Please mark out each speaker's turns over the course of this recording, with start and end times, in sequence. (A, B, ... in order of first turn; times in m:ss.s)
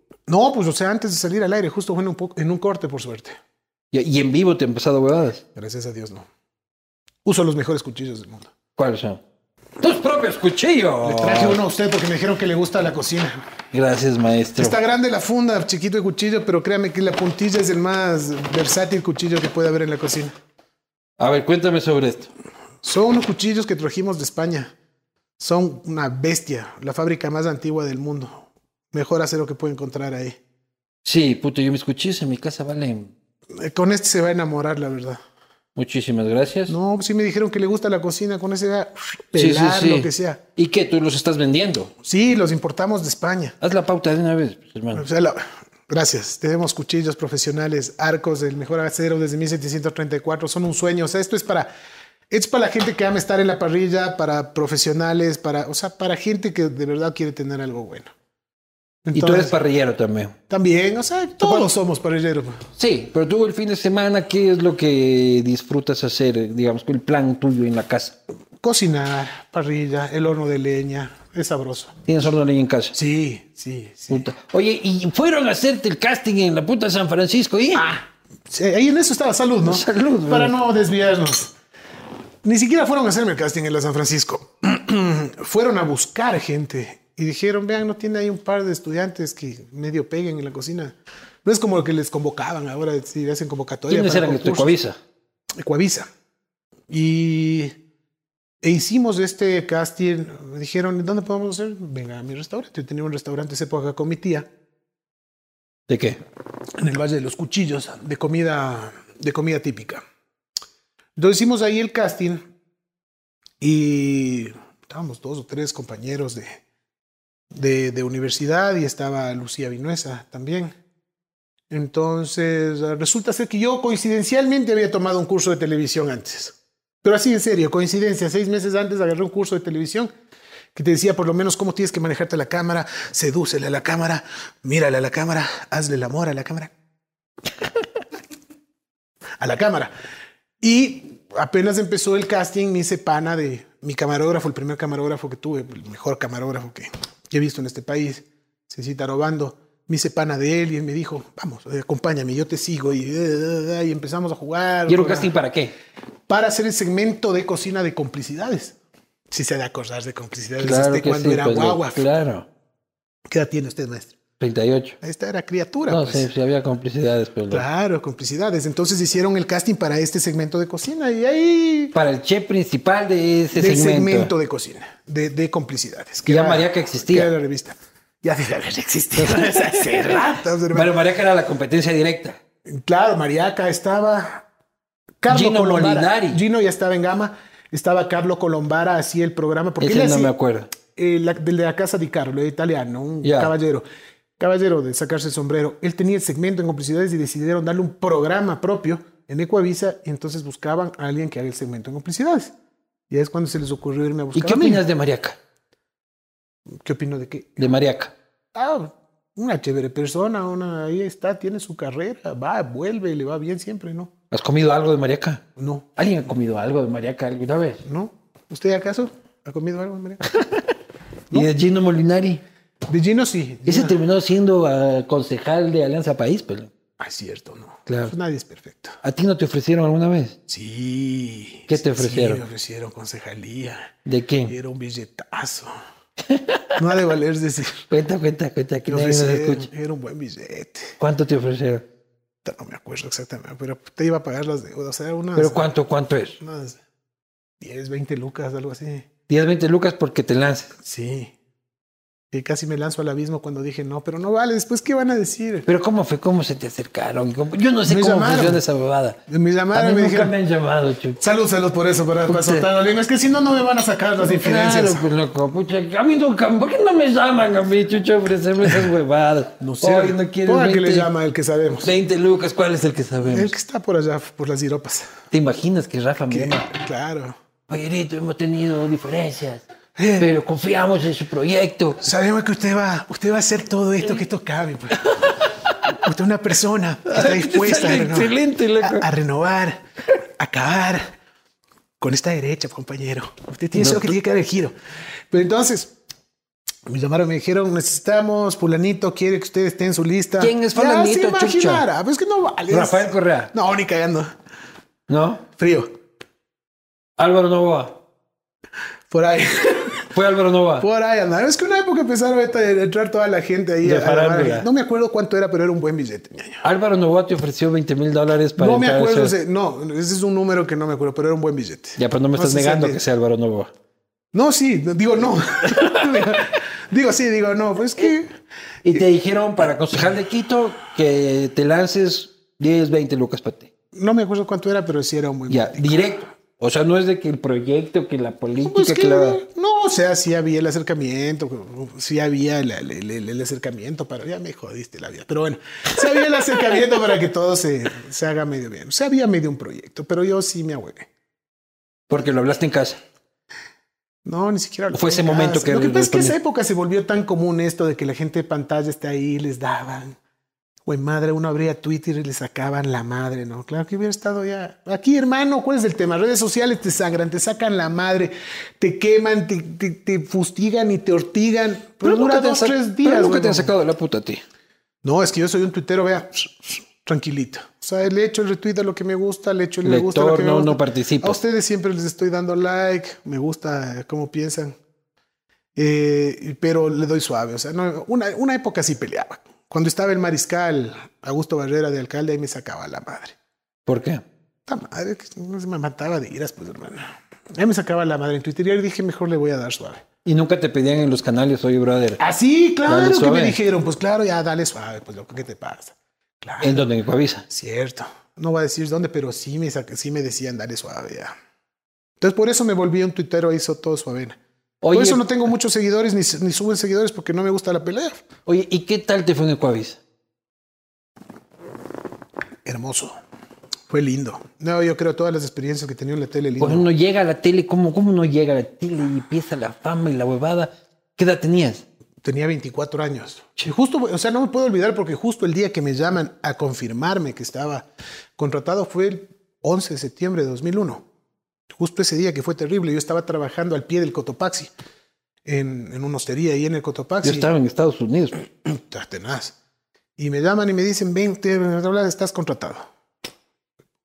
0:00.3-0:03.4 A
0:03.9-0:05.4 B
0:05.6-0:06.3 A
0:07.2-0:08.5 A
0:08.8-0:09.2 B
0:09.8-0:11.6 B
0:11.0-0:13.4 A
0:13.7-0:14.8 B
0:14.6-0:20.3 A
0:21.2-0:22.3 B
0:22.8-0:24.7 A
0:25.4-0:30.4 A
0:31.0-0:33.1 B
0:33.5-0:35.2 A
0:35.8-0:36.8 B
0:36.7-0:40.4 A
0:39.4-0:41.9 B
0:42.0-0:43.6 A
0:43.6-0:45.0 B
0:44.9-0:51.7 A
0:52.3-0:58.1 A
0:59.0-0:59.6 A
0:59.1-1:00.4 B
1:00.5-1:02.6 A
1:01.4-1:01.7 B
1:02.8-1:08.2 B
1:08.6-1:11.9 A
1:12.0-1:13.0 B
1:12.9-1:14.2 A
1:14.1-1:17.9 B
1:17.8-1:21.5 A
1:19.6-1:20.6 B
1:22.4-1:34.8 A
1:33.9-1:35.0 B
1:35.6-1:36.1 A
1:36.9-1:37.8 A
1:38.6-1:44.5 A
1:45.9-1:46.2 B
1:46.8-1:50.0 A
1:51.2-1:52.4 A
1:53.6-1:56.6 A
1:57.5-2:00.7 A
2:01.7-2:10.1 A
2:10.8-2:16.7 A
2:19.4-2:19.9 A
2:20.6-2:35.3 A
2:34.9-2:35.7 B
2:36.3-2:38.8 A
2:39.3-2:42.1 A
2:40.6-2:42.5 B
2:43.3-2:44.2 A
2:44.4-2:45.0 B
2:45.0-2:46.3 A
2:45.9-2:47.6 B
2:47.5-2:52.0 A
2:51.9-2:54.3 B
2:53.6-3:01.0 A
2:56.3-2:57.3 B
2:59.2-3:02.4 B
3:02.7-3:04.4 A
3:05.2-3:10.3 A
3:05.3-3:06.4 B
3:09.8-3:10.7 B
3:11.0-3:13.8 A
3:13.2-3:13.5 B
3:14.4-3:22.5 A
3:23.1-3:24.8 A
3:24.4-3:25.4 B
3:26.8-3:27.7 A
3:27.6-3:28.1 B
3:28.5-3:34.1 A
3:34.3-3:35.4 B
3:35.6-3:36.0 A
3:36.0-3:37.8 B
3:37.8-3:40.2 A
3:40.3-3:40.7 B
3:41.3-3:42.4 B
3:42.9-3:44.0 A
3:43.7-3:46.7 B
3:47.0-3:49.0 A
3:47.9-3:48.1 B
3:49.0-3:50.4 B
3:50.5-3:53.9 A
3:51.7-3:52.4 B
3:54.0-3:54.6 B
3:54.5-3:55.7 A
3:56.3-3:56.8 B
3:56.8-3:57.8 A
3:57.9-3:59.7 B
3:58.9-4:01.0 A
4:01.0-4:01.8 B
4:02.4-4:05.7 A
4:05.4-4:06.4 B
4:06.4-4:06.8 A
4:07.6-4:09.1 A
4:09.3-4:10.7 B
4:10.8-4:11.3 A
4:12.3-4:15.7 A
4:15.7-4:19.2 B
4:17.9-4:18.6 A
4:19.3-4:20.3 A
4:19.7-4:21.2 B
4:21.2-4:25.0 A
4:22.3-4:22.7 B
4:24.2-4:31.1 B
4:29.6-4:31.9 A
4:31.8-4:33.6 B
4:33.3-4:35.1 A
4:35.3-4:36.7 B
4:36.3-4:37.4 A
4:37.7-4:39.7 B
4:40.0-4:40.3 A
4:40.2-4:42.0 B
4:42.0-4:45.0 A
4:45.0-4:45.8 B
4:45.9-4:49.8 A
4:47.1-4:49.1 B
4:50.4-4:51.0 A
4:52.0-4:54.7 A
4:53.7-4:54.1 B
4:55.3-4:55.9 A
4:56.9-5:04.3 A
5:00.4-5:01.8 B
5:02.7-5:03.5 B
5:05.1-5:05.4 B
5:05.6-5:05.9 A
5:07.2-5:08.0 B
5:09.1-5:10.0 A
5:10.1-5:10.9 B
5:10.8-5:16.6 A
5:13.8-5:14.7 B
5:16.6-5:19.3 B
5:18.6-5:23.0 A
5:22.0-5:23.7 B
5:24.3-5:28.3 A
5:25.7-5:26.2 B
5:28.8-5:33.7 B
5:33.9-5:36.1 A
5:35.5-5:39.4 B
5:38.6-5:51.1 A
5:52.1-5:53.0 B
5:54.2-6:00.2 A
5:54.9-5:56.4 B
6:00.9-6:13.7 A
6:12.0-6:14.4 B
6:15.0-6:24.8 A
6:19.8-6:21.4 B
6:25.7-6:33.4 A
6:33.9-6:34.2 B
6:34.7-6:40.0 A
6:40.2-6:42.2 B
6:42.2-6:46.8 A
6:42.9-6:43.6 B
6:46.6-6:47.4 B
6:47.5-6:51.3 A
6:52.2-6:54.4 A
6:54.8-6:55.3 B
6:54.9-6:58.2 A
6:58.4-7:00.0 B
7:02.6-7:03.2 A
7:03.9-7:06.9 A
7:06.6-7:11.8 B
7:12.2-7:21.0 A
7:21.7-7:24.7 A
7:25.4-7:27.5 A
7:27.2-7:28.4 B
7:28.6-7:29.6 A
7:30.2-7:32.9 A